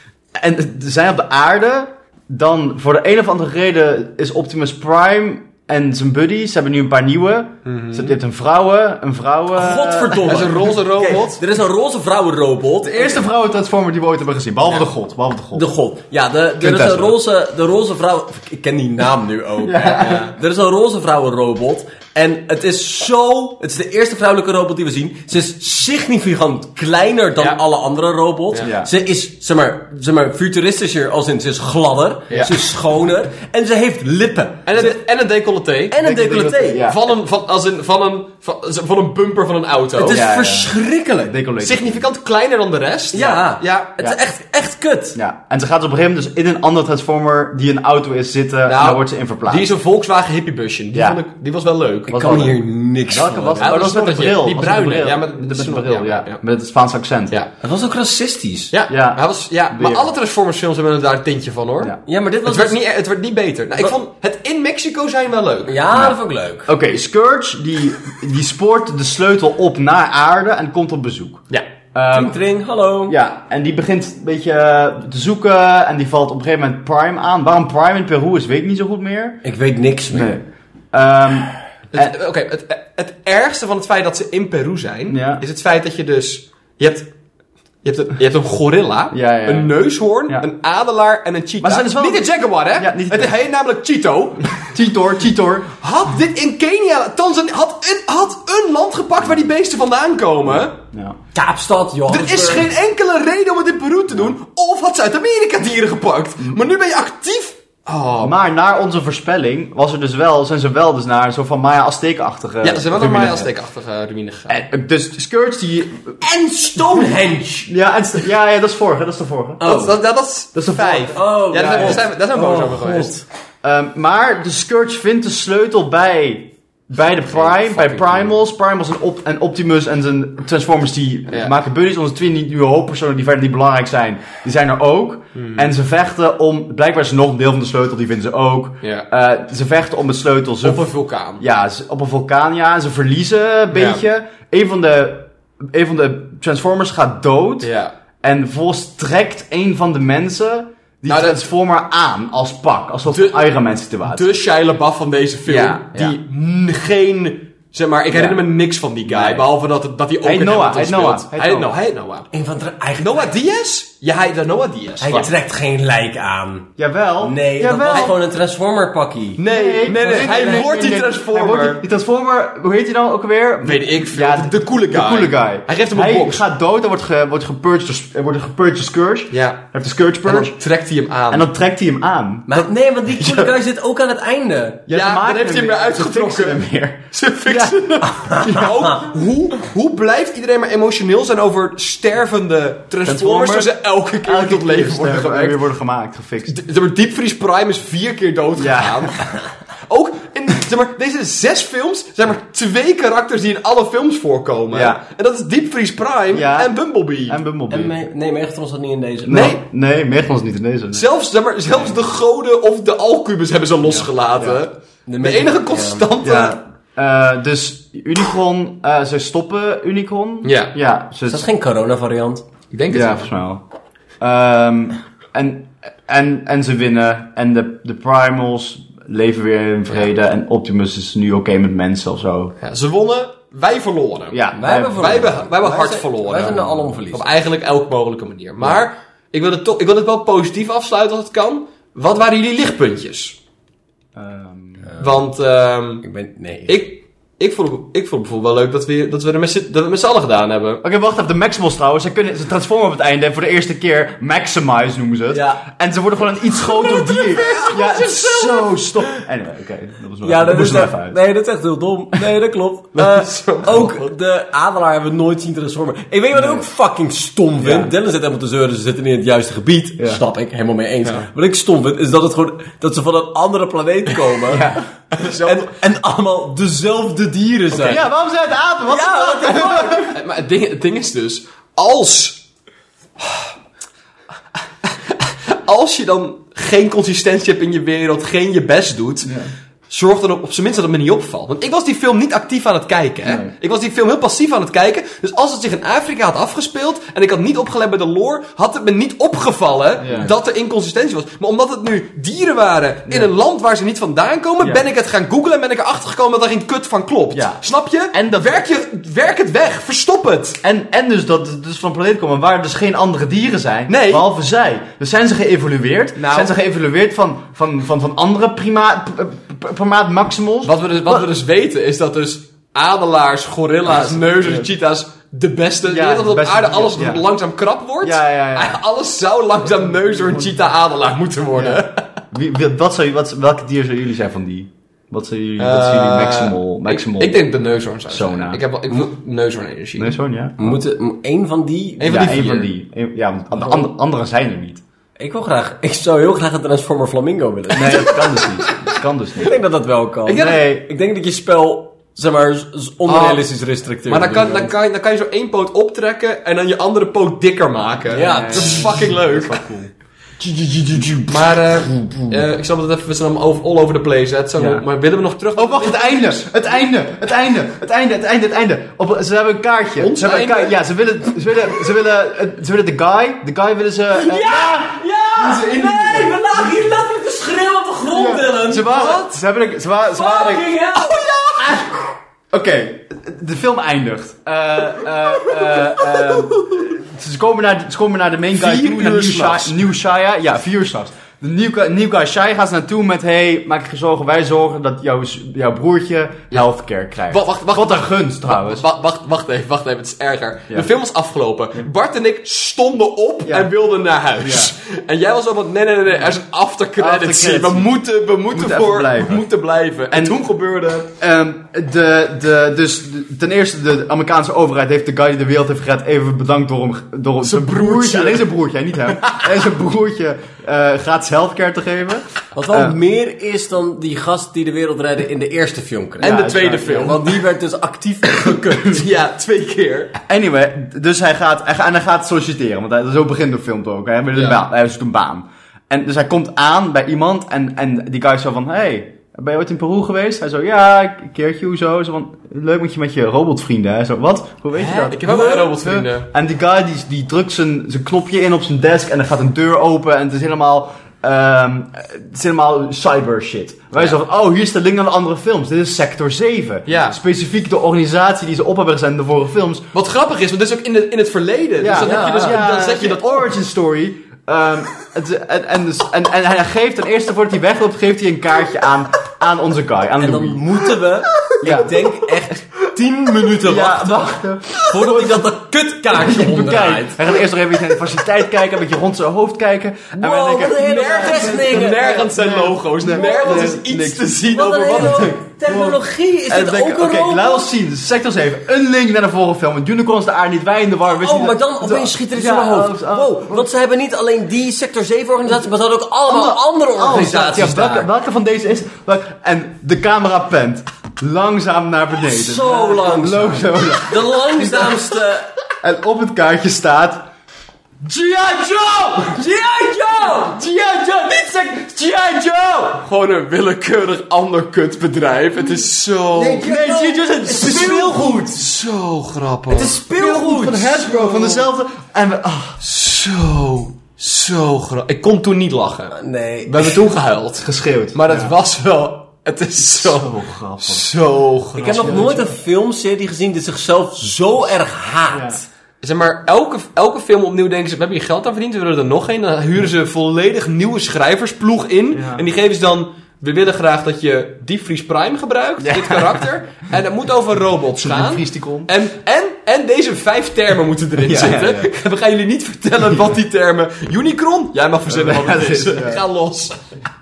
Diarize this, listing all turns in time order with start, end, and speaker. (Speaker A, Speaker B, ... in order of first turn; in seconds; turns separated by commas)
Speaker A: 0.3-10.7, Speaker B: 7.6-8.2, Speaker C: 9.5-13.2, Speaker B: 10.2-11.4, Speaker A: 12.8-15.7, Speaker C: 15.5-34.9, Speaker A: 16.6-17.2, Speaker A: 19.6-20.3, Speaker B: 20.0-20.3, Speaker A: 28.6-28.9, Speaker A: 32.3-32.6, Speaker B: 34.6-36.0, Speaker C: 35.9-36.9, Speaker A: 36.0-37.0, Speaker B: 36.8-40.2, Speaker C: 40.0-41.4, Speaker A: 40.1-40.7, Speaker A: 41.3-42.0, Speaker B: 41.6-43.9, Speaker C: 43.1-45.2, Speaker A: 45.1-49.7, Speaker B: 48.6-52.5, Speaker A: 50.9-51.2, Speaker C: 52.1-53.9, Speaker A: 52.1-52.5, Speaker A: 53.1-57.3, Speaker B: 53.6-56.4, Speaker C: 57.6-58.7, Speaker B: 58.7-65.8, Speaker A: 58.9-60.1, Speaker C: 62.0-62.8, Speaker C: 65.7-66.7, Speaker A: 65.9-72.4, Speaker C: 72.1-73.2, Speaker A: 73.1-79.4, Speaker C: 79.4-80.3, Speaker A: 80.1-82.1, Speaker B: 81.9-87.1, Speaker A: 85.1-85.4, Speaker B: 87.8-94.6, Speaker A: 89.1-89.7, Speaker A: 91.6-93.4, Speaker A: 94.6-95.7, Speaker B: 95.8-100.7, Speaker A: 100.5-101.2, Speaker C: 101.3-102.7, Speaker B: 102.1-108.3, Speaker A: 108.2-113.5, Speaker B: 112.6-114.6, Speaker A: 114.5-116.2, Speaker C: 116.2-117.7, Speaker A: 117.7-119.9, Speaker C: 119.6-119.9, Speaker B: 119.6-123.2, Speaker A: 120.5-122.0, Speaker C: 121.1-123.2, Speaker A: 123.6-147.7, Speaker B: 127.3-128.3, Speaker B: 135.3-135.7, Speaker B: 140.6-141.4, Speaker B: 143.7-144.0, Speaker B: 147.6-147.9, Speaker A: 148.2-154.4, Speaker B: 151.1-151.4, Speaker B: 153.1-162.3, Speaker A: 155.5-156.2, Speaker A: 158.1-158.4, Speaker A: 159.1-159.4, Speaker A: 160.2-161.7, Speaker C: 162.3-163.3, Speaker B: 163.0-165.3, Speaker C: 165.0-170.7, Speaker A: 166.8-168.1, Speaker B: 169.4-171.8, Speaker A: 169.4-180.5, Speaker B: 173.6-176.4, Speaker B: 179.3-179.7, Speaker B: 180.2-181.5, Speaker A: 181.3-182.6, Speaker C: 182.5-184.8, Speaker B: 183.2-183.5, Speaker A: 184.9-188.8, Speaker B: 184.9-195.6, Speaker A: 193.0-196.6, Speaker B: 196.5-199.3, Speaker A: 198.6-199.1, Speaker B: 199.9-207.4, Speaker A: 204.7-205.0, Speaker A: 206.3-208.0, Speaker C: 207.7-209.5, Speaker A: 209.2-211.1, Speaker B: 209.3-209.6, Speaker B: 210.9-216.6, Speaker A: 213.8-214.6, Speaker C: 215.1-216.1, Speaker A: 216.2-221.4, Speaker B: 220.4-220.7, Speaker C: 221.3-222.4, Speaker B: 222.7-223.3, Speaker A: 222.9-223.6, Speaker A: 224.2-232.5, Speaker B: 232.6-234.4, Speaker A: 234.3-235.4, Speaker C: 234.5-237.2, Speaker B: 234.9-243.4, Speaker A: 244.2-244.9, Speaker B: 245.0-246.0, Speaker C: 246.0-246.8, Speaker B: 246.7-250.8, Speaker A: 250.8-261.2, Speaker C: 255.3-255.6, Speaker C: 256.7-259.0, Speaker C: 260.2-278.1, Speaker B: 262.9-264.1, Speaker A: 266.3-266.7, Speaker A: 267.6-267.9, Speaker A: 274.5-274.8, Speaker B: 275.1-275.7, Speaker A: 277.7-280.2, Speaker C: 278.9-280.1, Speaker B: 280.0-282.4, Speaker B: 283.2-283.5, Speaker B: 284.8-289.3, Speaker A: 289.2-289.5, Speaker B: 289.9-310.6, Speaker A: 293.2-293.5, Speaker A: 300.0-300.3, Speaker A: 307.3-307.6, Speaker A: 308.1-308.6, Speaker A: 310.6-321.3, Speaker B: 313.9-314.2, Speaker B: 316.1-316.5, Speaker B: 320.6-332.1, Speaker A: 323.9-324.7, Speaker A: 325.9-327.2, Speaker A: 328.0-328.8, Speaker A: 330.2-330.5, Speaker A: 331.6-337.4, Speaker B: 335.6-340.2, Speaker A: 338.1-338.6, Speaker A: 340.0-340.8, Speaker C: 340.6-342.3, Speaker B: 342.0-342.7, Speaker A: 342.0-344.8, Speaker C: 345.2-348.2, Speaker A: 347.7-349.6, Speaker C: 349.4-354.7, Speaker B: 350.2-350.6, Speaker A: 350.3-350.9, Speaker B: 353.1-353.4, Speaker B: 354.1-359.6, Speaker C: 358.1-358.9, Speaker A: 358.2-359.9, Speaker C: 360.4-362.4, Speaker B: 361.3-366.7, Speaker A: 364.6-364.8, Speaker A: 365.6-376.7, Speaker B: 370.0-370.8, Speaker C: 374.1-378.9, Speaker A: 378.1-380.7, Speaker B: 378.8-379.4, Speaker C: 380.1-381.9, Speaker B: 380.9-381.9, Speaker A: 382.5-398.8, Speaker B: 388.5-389.8, Speaker B: 397.3-411.1, Speaker A: 403.4-403.7, Speaker A: 404.4-404.7, Speaker A: 407.0-407.9, Speaker A: 408.5-409.4, Speaker A: 410.1-410.4, Speaker A: 411.1-423.0, Speaker B: 417.4-418.5, Speaker C: 422.5-429.0, Speaker A: 426.2-427.1, Speaker B: 426.2-427.4, Speaker B: 428.8-430.1, Speaker A: 430.3-459.9, Speaker B: 434.3-434.6, Speaker B: 444.7-446.3, Speaker B: 456.9-457.2, Speaker B: 459.9-463.5, Speaker A: 461.8-470.7, Speaker C: 462.0-462.6, Speaker C: 470.2-477.3, Speaker A: 471.6-471.9, Speaker A: 473.6-475.5, Speaker A: 476.1-484.4, Speaker C: 480.2-482.3, Speaker B: 480.7-485.4, Speaker C: 483.1-483.8, Speaker C: 484.5-487.7, Speaker A: 484.9-493.7, Speaker C: 491.1-498.1, Speaker A: 496.2-505.0, Speaker C: 502.2-505.5, Speaker A: 505.8-507.3, Speaker A: 508.0-509.4, Speaker C: 509.3-510.6, Speaker A: 510.3-513.0, Speaker B: 513.0-516.7, Speaker A: 516.3-518.6, Speaker C: 516.4-518.4, Speaker B: 517.6-520.0, Speaker C: 519.7-521.7, Speaker A: 520.1-522.8, Speaker B: 522.8-532.4, Speaker C: 526.1-527.0, Speaker A: 527.6-528.5, Speaker A: 529.8-531.0, Speaker C: 531.8-535.6, Speaker A: 531.8-532.5, Speaker A: 535.3-535.6, Speaker B: 536.0-556.8, Speaker A: 542.1-542.4, Speaker A: 545.8-546.5, Speaker A: 548.0-548.9, Speaker A: 551.2-551.9, Speaker A: 553.0-553.3, Speaker A: 555.1-556.2